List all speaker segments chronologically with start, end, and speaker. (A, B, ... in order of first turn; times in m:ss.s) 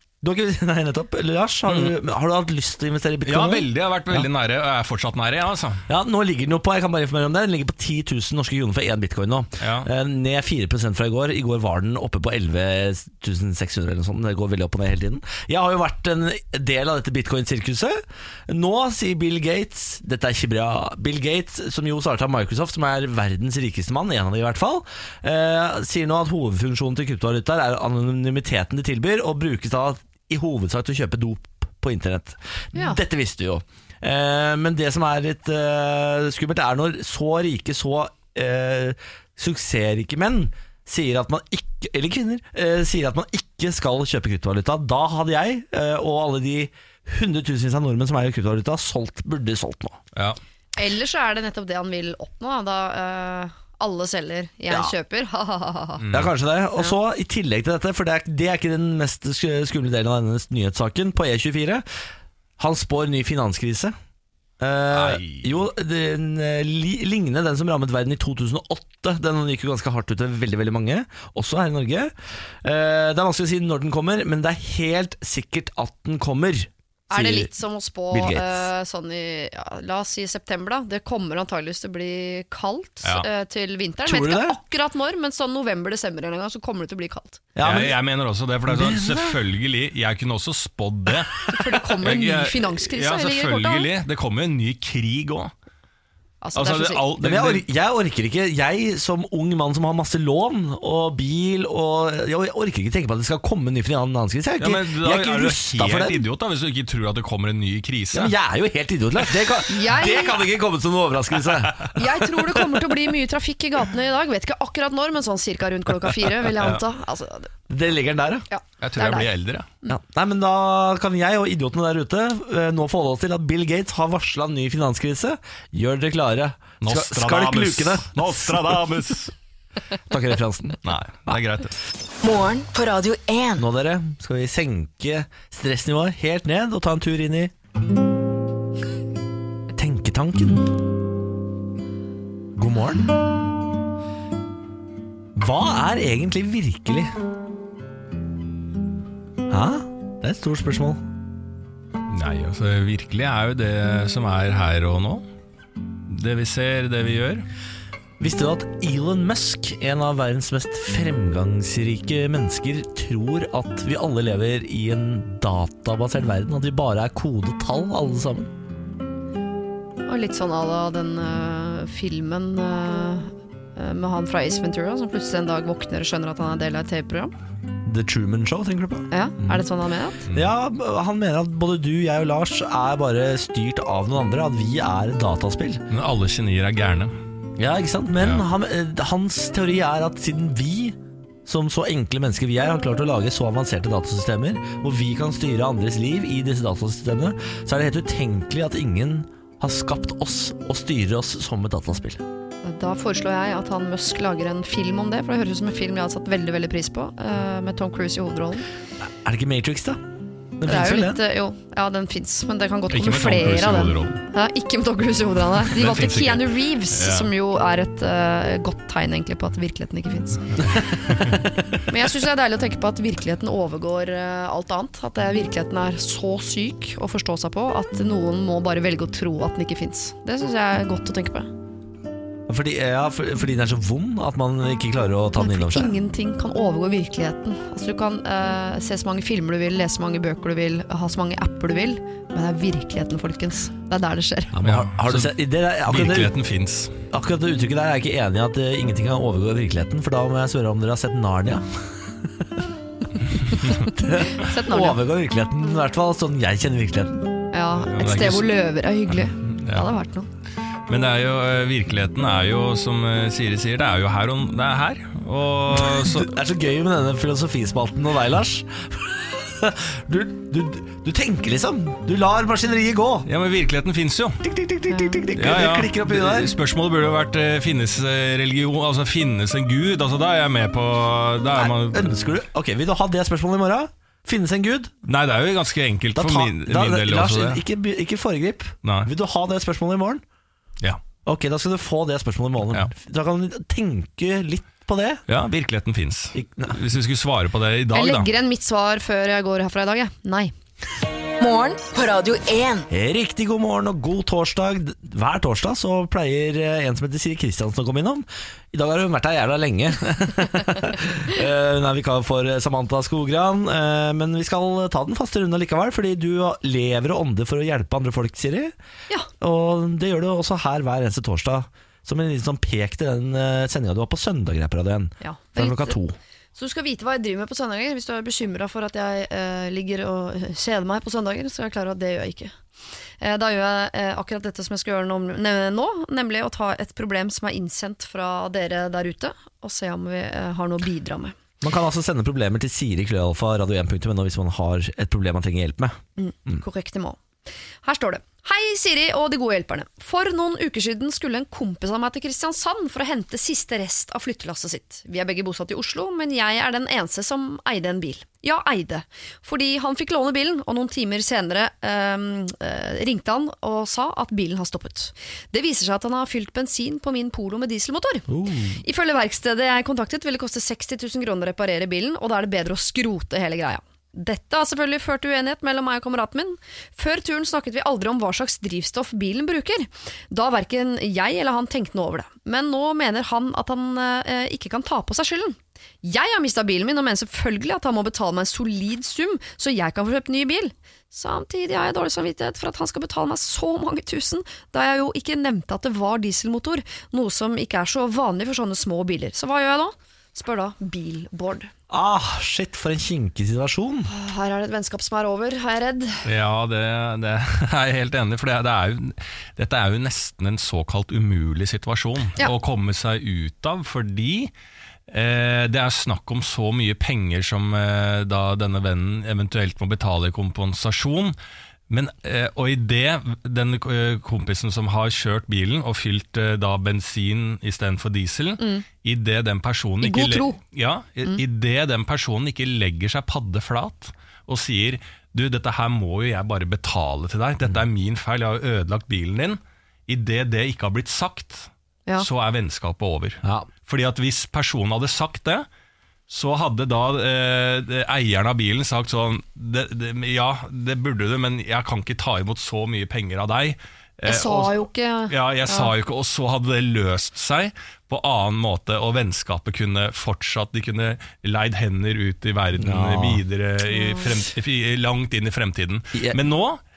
0:00.2-0:04.3 A
0:01.7-0:01.9 B
0:03.2-0:05.8 B
0:05.9-0:50.0 A
0:09.6-0:09.9 B
0:32.7-0:33.0 C
0:50.8-0:56.0 C
0:56.0-0:56.3 B
0:56.1-1:01.8 A
1:02.6-1:03.9 A
1:04.6-1:12.1 A
1:04.9-1:05.6 B
1:12.6-1:17.5 A
1:17.1-1:27.4 C
1:18.1-1:18.7 A
1:24.0-1:24.6 A
1:27.6-1:28.0 A
1:27.6-1:35.5 B
1:28.6-1:29.4 A
1:31.5-1:33.9 C
1:36.4-1:37.1 C
1:36.5-1:37.6 B
1:37.2-1:46.2 A
1:44.6-1:48.3 B
1:48.1-1:52.4 A
1:49.7-1:50.4 C
1:51.9-1:57.5 C
1:57.7-1:58.4 A
1:58.5-1:59.3 C
1:58.8-1:59.7 B
1:59.9-2:08.8 A
2:06.8-2:09.3 B
2:10.1-2:10.8 A
2:10.8-2:11.7 B
2:12.2-2:13.6 D
2:13.6-2:17.5 A
2:19.7-2:20.8 A
2:22.5-2:23.1 A
2:25.3-2:27.1 A
2:29.5-2:31.0 A
2:32.1-2:35.2 B
2:36.1-2:37.4 B
2:38.2-2:48.5 A
2:50.0-2:57.3 C
2:57.8-2:59.6 A
2:59.1-3:00.2 C
3:00.3-3:05.8 A
3:05.9-3:07.1 B
3:07.6-3:22.2 A
3:22.6-3:28.6 C
3:29.0-3:30.0 A
3:30.6-3:31.2 A
3:30.6-3:40.6 C
3:32.9-3:34.2 B
3:35.7-3:37.3 B
3:41.8-3:51.5 C
3:52.5-3:55.9 A
3:55.4-4:04.5 C
4:04.5-4:06.3 A
4:04.6-4:06.9 B
4:07.1-4:12.6 A
4:13.9-4:17.2 A
4:14.3-4:15.0 C
4:17.5-4:20.3 C
4:17.8-4:18.5 B
4:19.2-4:19.9 B
4:20.9-4:26.3 B
4:25.7-4:33.3 A
4:33.2-4:34.4 B
4:34.4-4:36.5 A
4:34.9-4:35.2 C
4:35.3-4:42.1 B
4:41.5-4:44.9 A
4:45.0-4:47.6 B
4:46.1-4:50.2 A
4:48.8-4:49.1 B
4:51.2-4:55.2 A
4:55.3-4:58.3 B
4:56.3-4:56.8 A
4:57.9-5:00.5 C
5:01.4-5:02.9 D
5:02.9-5:18.7 A
5:19.4-5:26.2 A
5:25.2-5:26.0 C
5:26.6-5:32.5 C
5:33.2-5:41.3 C
5:41.6-5:46.6 A
5:46.2-5:47.2 C
5:47.8-6:08.2 C
6:08.3-6:08.8 A
6:08.8-6:41.7 C
6:41.9-6:44.1 A
6:44.1-6:46.2 C
6:46.2-6:54.5 B
6:55.1-7:01.3 B
7:01.9-7:25.6 B
7:08.6-7:08.8 C
7:10.0-7:10.6 C
7:23.4-7:23.7 A
7:26.3-7:34.8 B
7:34.2-7:35.9 C
7:35.3-7:46.8 B
7:42.8-7:43.4 A
7:43.9-7:44.3 C
7:46.1-7:46.4 A